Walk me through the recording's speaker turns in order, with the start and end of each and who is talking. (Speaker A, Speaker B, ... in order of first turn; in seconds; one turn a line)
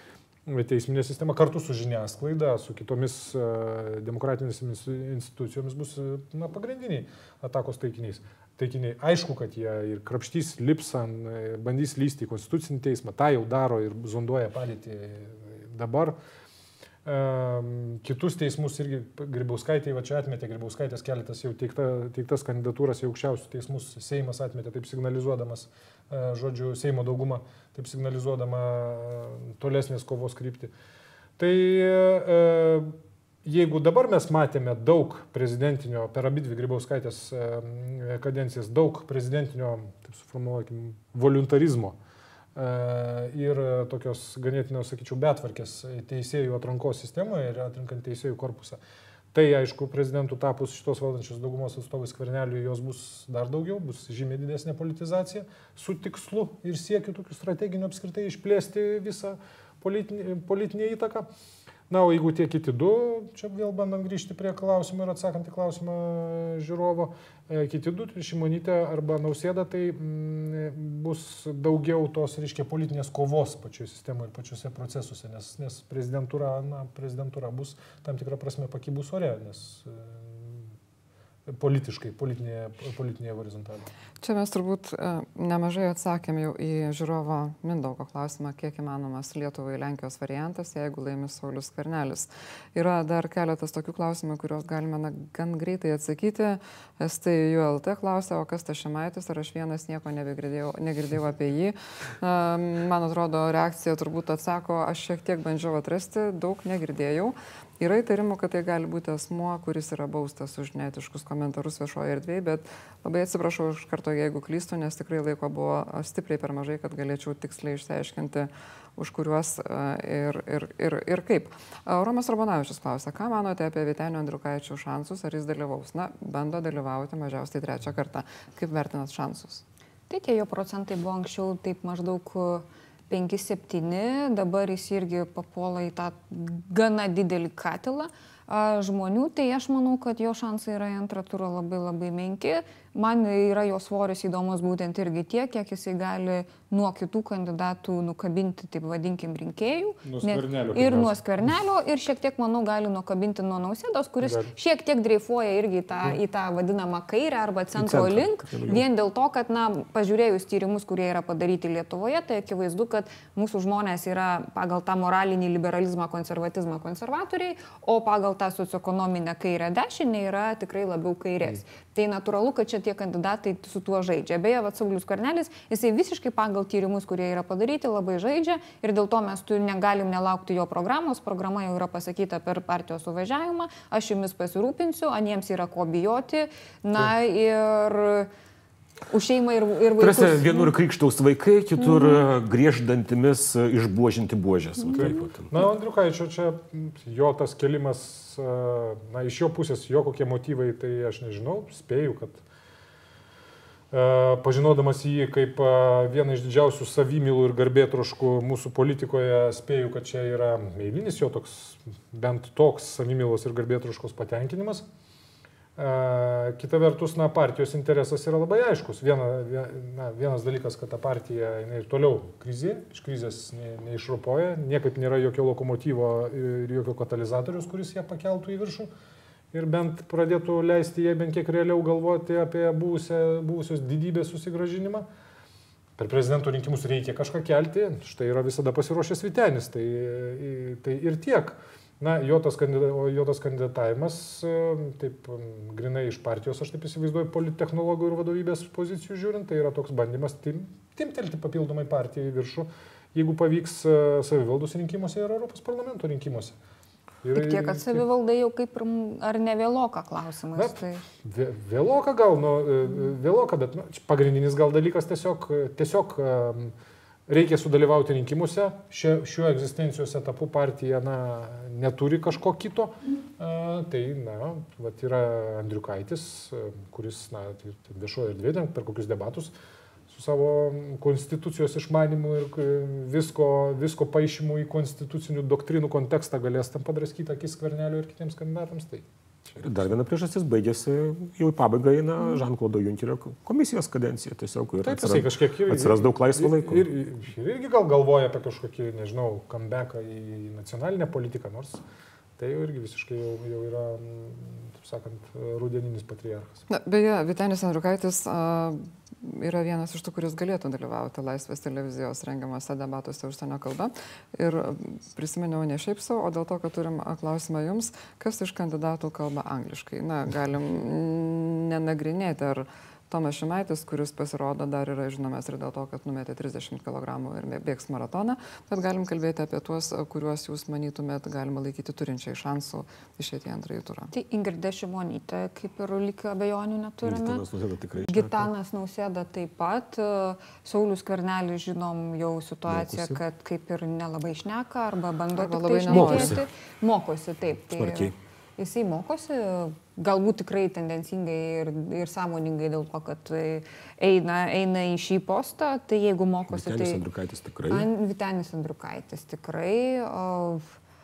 Speaker A: 0.5-16.2
Speaker A: 17.1-30.7
Speaker A: 31.4-42.0
Speaker A: 42.6-48.8
Speaker A: 49.3-61.3
Speaker A: 61.9-80.7
Speaker A: 81.5-83.9
Speaker B: 84.2-129.6
Speaker C: 130.1-188.3
Speaker A: 150.0-151.2
Speaker A: 154.2-154.5
Speaker D: 157.8-158.8
Speaker C: 189.1-190.7
Speaker D: 190.0-195.5
Speaker A: 195.0-202.4
Speaker A: 203.9-214.8
Speaker A: 215.8-228.9
Speaker A: 229.5-235.1
Speaker A: 236.0-256.6
Speaker A: 257.2-258.1
Speaker C: 257.4-261.0
Speaker A: 260.6-266.7
Speaker A: 267.3-279.5
Speaker A: 280.1-289.1
Speaker D: 289.6-296.9
Speaker A: 294.8-301.8
Speaker A: 302.4-306.6
Speaker B: 306.7-334.1
Speaker C: 334.1-337.4
Speaker D: 337.0-338.5
Speaker C: 338.0-357.0
Speaker D: 342.7-343.2
Speaker B: 345.4-346.4
Speaker D: 345.9-346.4
Speaker D: 347.7-348.1
Speaker D: 356.5-357.9
Speaker C: 357.7-360.8